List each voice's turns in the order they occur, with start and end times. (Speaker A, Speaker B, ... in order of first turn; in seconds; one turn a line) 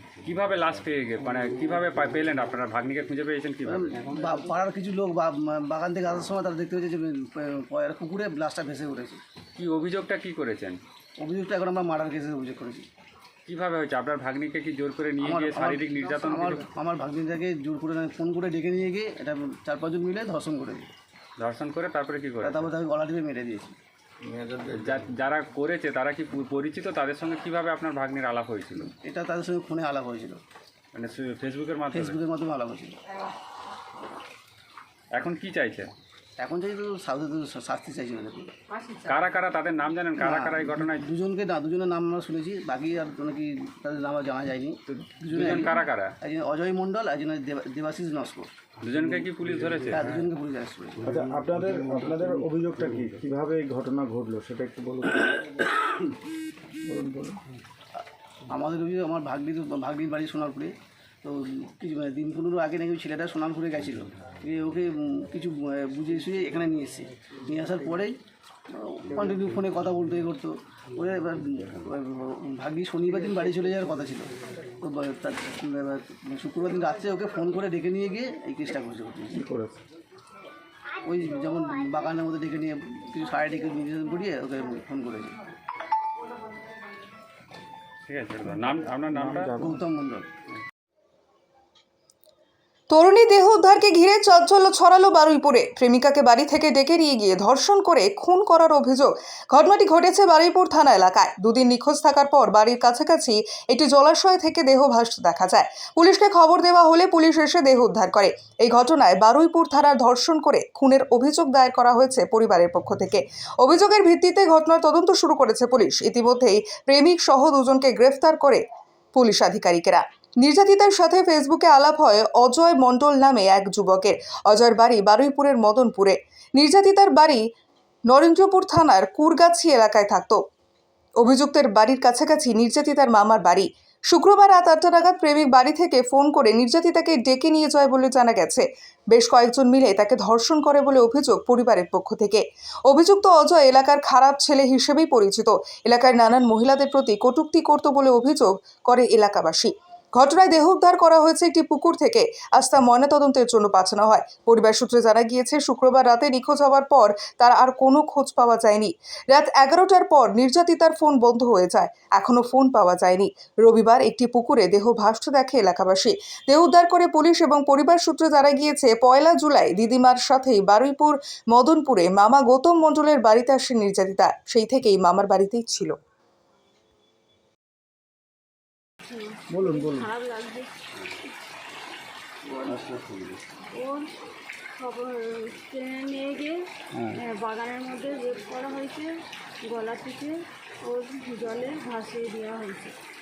Speaker A: 0.2-4.4
Speaker B: 3.6-9.2
Speaker A: 9.6-10.8
Speaker B: 11.2-12.9
Speaker A: 13.5-16.6
Speaker B: 15.2-20.9
Speaker A: 21.4-22.7
Speaker B: 22.4-23.7
Speaker C: 24.2-25.0
Speaker A: 24.7-28.9
Speaker B: 29.0-30.4
Speaker A: 30.9-32.2
Speaker B: 31.9-32.9
Speaker A: 35.1-35.9
Speaker B: 36.4-38.5
Speaker A: 39.0-41.1
Speaker B: 40.2-48.5
Speaker A: 44.9-46.1
Speaker A: 48.8-50.2
Speaker B: 49.9-51.1
Speaker C: 51.0-55.7
Speaker C: 56.9-57.4
Speaker B: 58.5-68.2
Speaker B: 68.7-74.3
Speaker B: 74.8-79.4
Speaker C: 79.3-79.8
Speaker B: 81.0-85.4
Speaker A: 88.0-89.6
Speaker C: 89.1-89.8
Speaker B: 89.6-90.3
Speaker D: 92.9-118.6
Speaker D: 119.1-127.4
Speaker D: 128.1-130.4
Speaker D: 131.2-175.9
Speaker E: 179.1-180.7
Speaker C: 179.5-180.1
Speaker E: 182.5-182.9
Speaker E: 183.7-184.1
Speaker E: 184.7-186.6
Speaker E: 187.1-189.1
Speaker E: 189.7-192.9